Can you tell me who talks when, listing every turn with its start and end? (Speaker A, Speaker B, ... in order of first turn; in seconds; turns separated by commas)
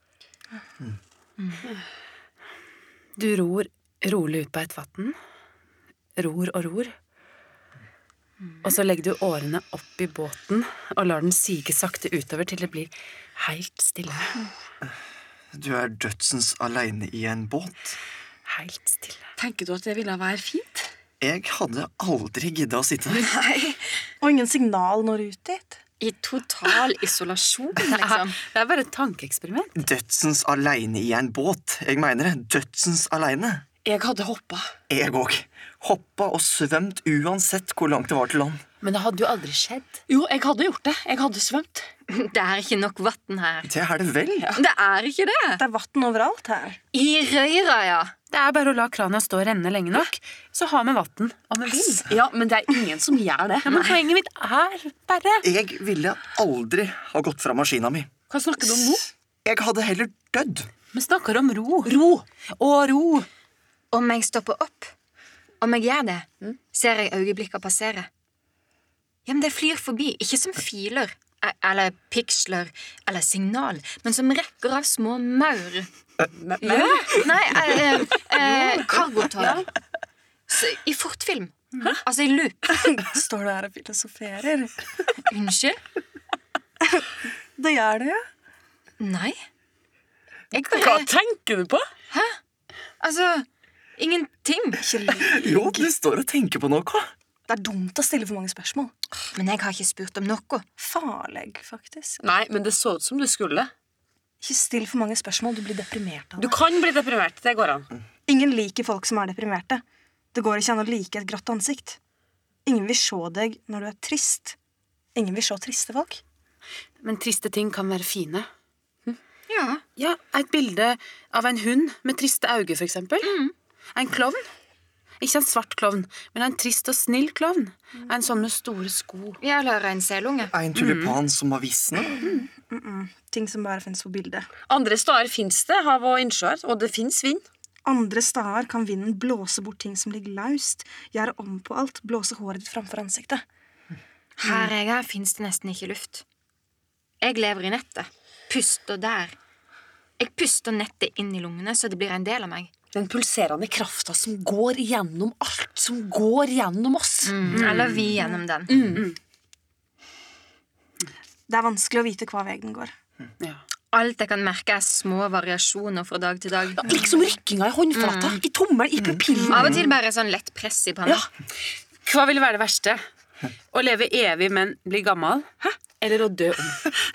Speaker A: 1.4-1.6, Speaker B: 3.2-5.2, Speaker B: 6.2-6.9, Speaker B: 8.6-14.4, Speaker C: 15.5-18.0, Speaker B: 18.5-19.2, Speaker D: 19.4-20.9, Speaker C: 21.2-23.3, Speaker A: 23.1-24.0, Speaker E: 24.2-25.8, Speaker A: 26.0-28.4, Speaker B: 27.8-29.7, Speaker C: 29.8-33.6, Speaker D: 33.8-34.7, Speaker C: 34.9-38.6, Speaker B: 38.8-40.0, Speaker D: 40.1-41.9, Speaker A: 42.1-43.7, Speaker C: 43.6-44.5, Speaker A: 44.5-45.6, Speaker E: 45.6-46.8, Speaker A: 46.9-48.1, Speaker B: 48.3-52.0, Speaker D: 52.0-53.8, Speaker B: 53.6-55.5, Speaker C: 55.4-58.1, Speaker D: 58.3-59.0, Speaker C: 59.4-60.7, Speaker B: 60.9-62.0, Speaker D: 61.9-62.2, Speaker B: 62.6-63.2, Speaker A: 63.9-64.9, Speaker A: 65.6-68.1, Speaker A: 69.2-75.9, Speaker D: 76.3-77.3, Speaker A: 76.6-79.7, Speaker E: 78.4-78.8, Speaker D: 79.4-79.7, Speaker A: 80.5-82.8, Speaker E: 82.7-84.9, Speaker A: 85.3-85.8, Speaker E: 86.8-88.2, Speaker A: 89.0-89.4, Speaker A: 90.5-91.1, Speaker D: 90.6-91.9, Speaker A: 92.1-92.4, Speaker A: 93.0-93.5, Speaker A: 94.0-94.8, Speaker E: 94.8-95.9, Speaker C: 95.1-97.1, Speaker E: 97.5-98.9, Speaker A: 99.3-100.7, Speaker E: 100.8-102.2, Speaker D: 102.2-103.7, Speaker E: 104.4-106.6, Speaker D: 106.4-107.9, Speaker E: 108.3-109.8, Speaker E: 110.3-112.0, Speaker E: 112.6-114.5, Speaker E: 115.1-116.2, Speaker B: 117.0-118.5, Speaker A: 119.5-119.8, Speaker B: 120.0-123.4, Speaker A: 123.2-123.5, Speaker B: 123.9-124.4, Speaker B: 125.2-129.4, Speaker A: 129.4-130.5, Speaker C: 130.5-132.2, Speaker B: 130.8-131.2, Speaker E: 132.1-134.5, Speaker D: 134.7-137.4, Speaker E: 137.8-143.4, Speaker A: 144.4-146.2, Speaker A: 147.2-149.3, Speaker A: 150.2-152.7, Speaker D: 152.9-157.7, Speaker A: 157.2-158.8, Speaker B: 157.5-158.0, Speaker D: 158.7-159.1, Speaker E: 161.5-162.9, Speaker A: 163.9-167.0, Speaker D: 166.7-169.8, Speaker A: 167.9-168.4, Speaker A: 169.5-171.2, Speaker C: 169.5-169.7, Speaker B: 172.0-173.0, Speaker B: 173.7-175.5, Speaker B: 176.0-176.8